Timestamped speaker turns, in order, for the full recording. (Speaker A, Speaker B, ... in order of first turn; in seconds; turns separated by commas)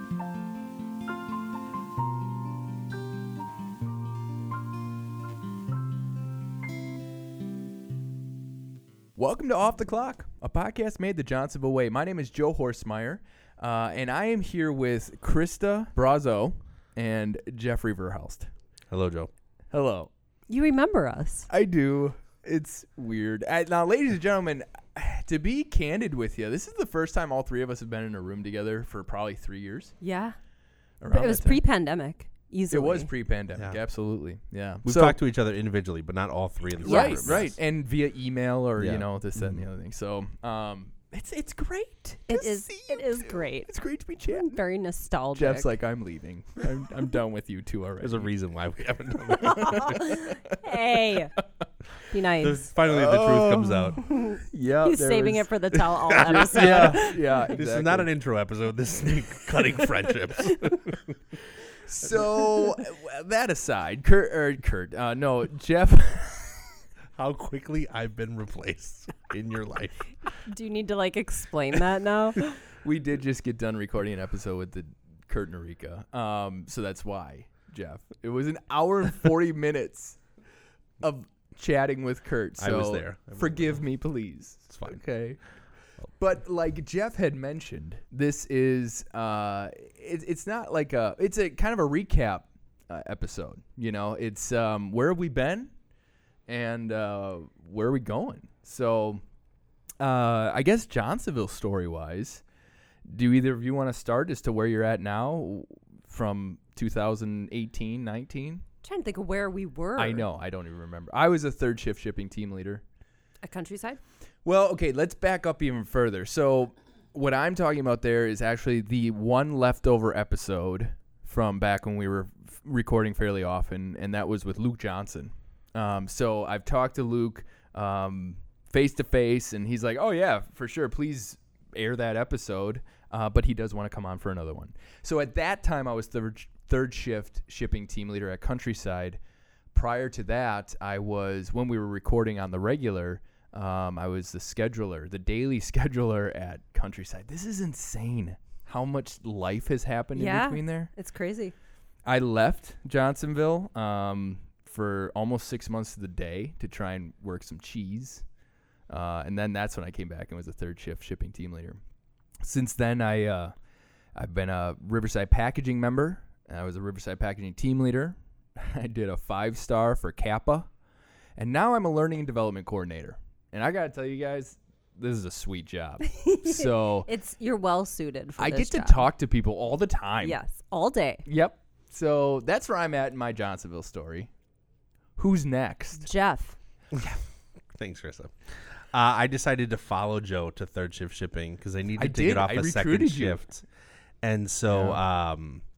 Speaker A: 9.2-18.5, Speaker B: 18.9-19.3, Speaker A: 19.7-20.1, Speaker C: 20.5-21.5, Speaker A: 21.5-29.9, Speaker C: 30.0-30.4, Speaker A: 31.0-31.6, Speaker C: 31.1-33.1, Speaker A: 32.7-35.2, Speaker B: 33.5-33.8, Speaker B: 34.8-37.6, Speaker A: 36.8-44.6, Speaker C: 36.8-37.4, Speaker B: 38.8-39.6, Speaker C: 42.3-43.7, Speaker C: 44.3-45.7, Speaker A: 45.3-48.3, Speaker B: 48.0-50.1, Speaker A: 49.4-50.5, Speaker C: 49.7-51.3, Speaker C: 52.1-52.7, Speaker B: 52.4-54.0, Speaker A: 52.8-58.1, Speaker C: 54.0-57.2, Speaker B: 56.2-61.1, Speaker A: 61.8-66.8, Speaker B: 67.1-70.1, Speaker C: 70.4-72.4, Speaker A: 72.8-80.2, Speaker A: 81.0-85.4, Speaker B: 82.6-83.8, Speaker B: 84.7-85.0, Speaker A: 86.2-95.7, Speaker A: 96.5-99.2, Speaker A: 100.0-102.4, Speaker A: 103.1-108.6, Speaker C: 108.8-110.2, Speaker A: 110.0-112.8, Speaker C: 113.4-114.0, Speaker A: 114.4-139.2, Speaker A: 139.7-150.9, Speaker C: 150.2-151.5, Speaker A: 152.1-158.2, Speaker A: 158.9-161.8, Speaker A: 162.4-163.5, Speaker A: 164.2-170.7, Speaker A: 171.4-177.1, Speaker C: 176.1-179.1, Speaker A: 178.4-180.4, Speaker C: 180.2-181.2, Speaker A: 181.2-184.3, Speaker A: 185.2-186.1, Speaker C: 186.0-186.6, Speaker B: 187.7-193.7, Speaker A: 192.0-193.4, Speaker B: 194.2-195.6, Speaker A: 194.7-195.0